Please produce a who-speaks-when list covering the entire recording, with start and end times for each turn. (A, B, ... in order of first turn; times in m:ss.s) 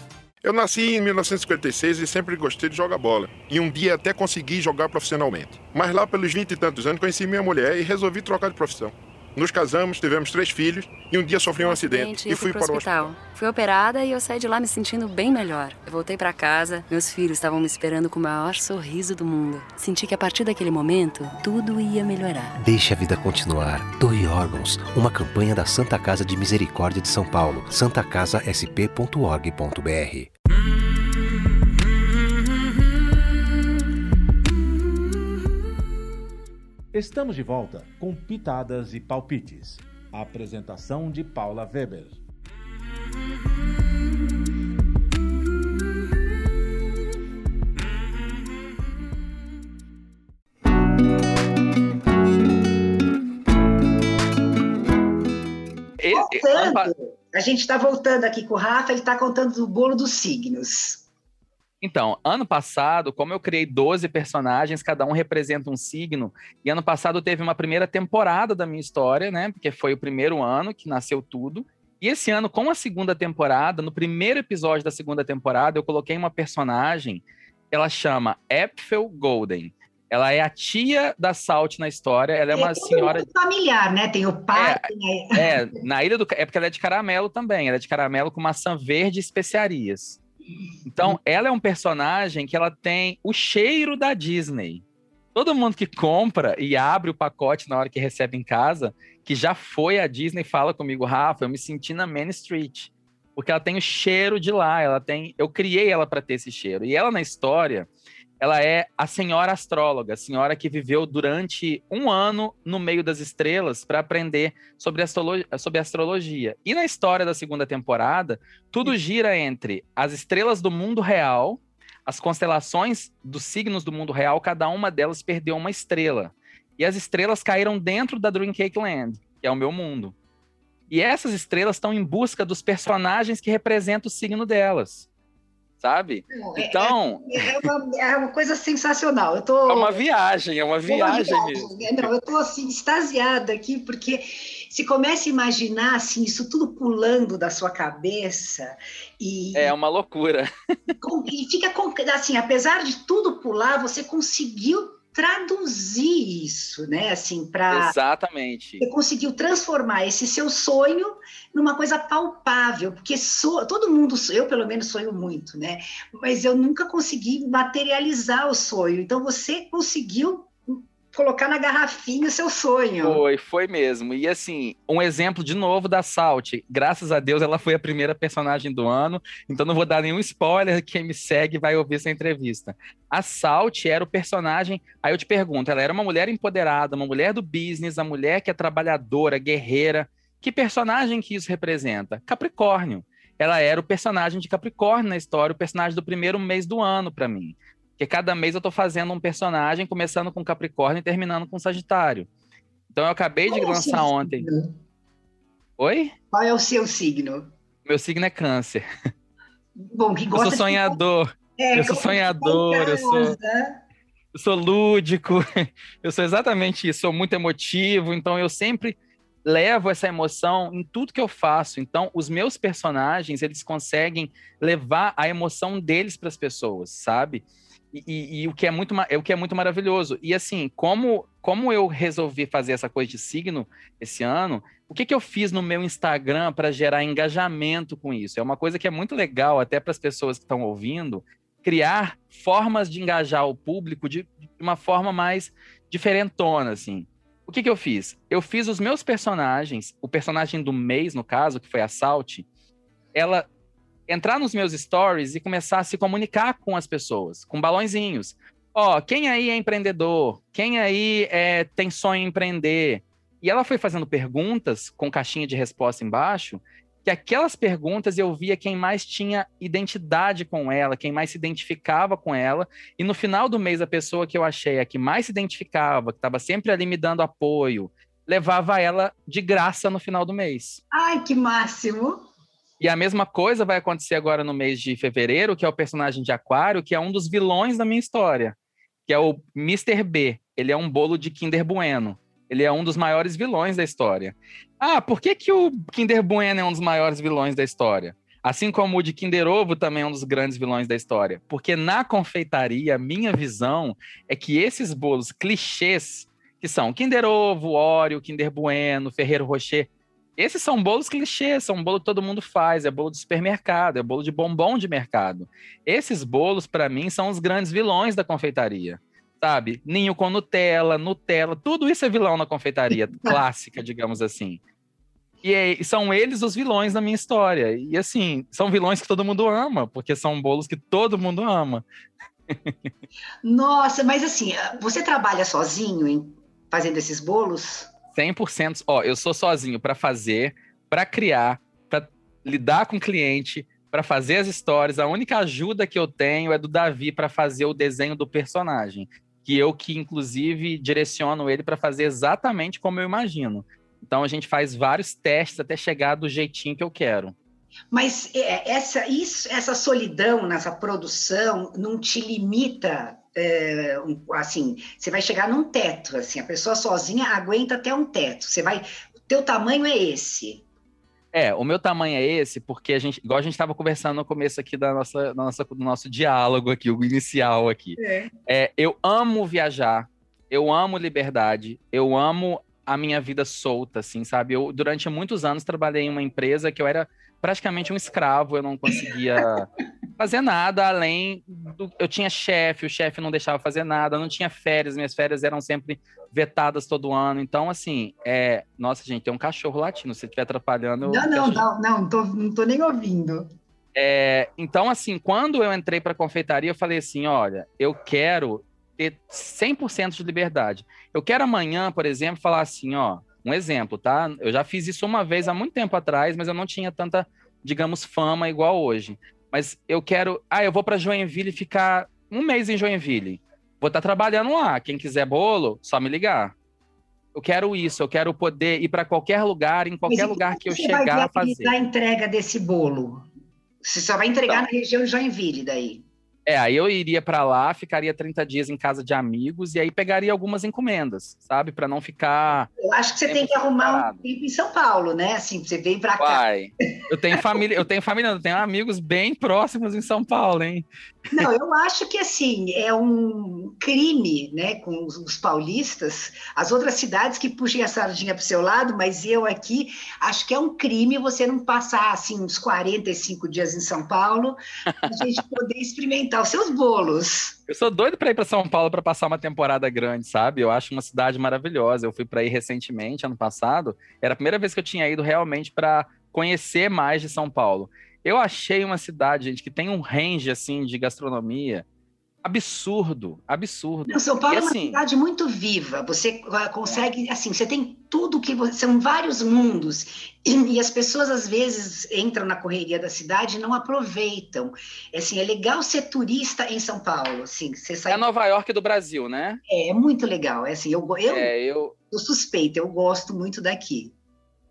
0:00.4-0:13.1 A
0:11.6-0:22.5 B
0:22.6-0:30.3 C
0:36.9-0:42.2 D
0:56.0-0:56.9 E
0:56.1-1:01.0 F
1:01.8-1:23.3 E
1:22.5-1:25.7 F
1:24.5-1:30.2 E
1:30.8-1:34.8 E
1:35.3-1:47.9 E
1:48.4-2:10.1 E
2:10.9-2:15.1 E
2:15.8-2:17.6 E
2:16.3-2:20.0 F
2:19.7-2:22.1 E
2:20.8-2:29.7 F
2:29.5-2:30.5 E
2:31.0-2:37.9 F
2:37.7-2:38.8 E
2:38.8-2:53.2 F
2:53.0-3:22.3 E
3:22.9-3:24.5 E
3:23.5-3:24.7 F
3:25.8-3:26.1 E
3:26.3-3:27.5 F
3:27.8-3:28.8 E
3:29.8-3:31.0 F
3:30.3-3:33.4 E
3:31.6-3:33.8 F
3:34.3-4:12.4 E
4:13.1-4:13.4 E
4:14.1-4:40.8 E
4:40.9-4:42.2 F
4:42.8-4:48.5 E
4:49.1-5:24.6 E
5:25.4-5:31.8 E
5:32.5-5:32.9 E
5:33.4-5:37.9 F
5:38.1-5:57.3 E
5:57.9-6:10.6 F
6:11.3-6:41.6 E
6:18.0-6:18.3 F
6:41.0-6:43.5 F
6:44.0-7:06.5 E
7:07.3-7:11.7 E
7:10.1-7:13.3 F
7:13.8-7:16.0 F
7:16.4-7:22.7 E
7:22.8-7:26.4 F
7:23.2-7:24.2 E
7:26.2-7:30.8 E
7:31.3-7:47.6 F
7:45.0-7:45.4 E
7:47.7-8:01.8 E
8:02.4-8:05.0 E
8:04.1-8:18.2 F
8:18.1-8:19.6 E
8:19.7-8:21.5 F
8:21.2-8:21.9 E
8:22.1-8:24.1 F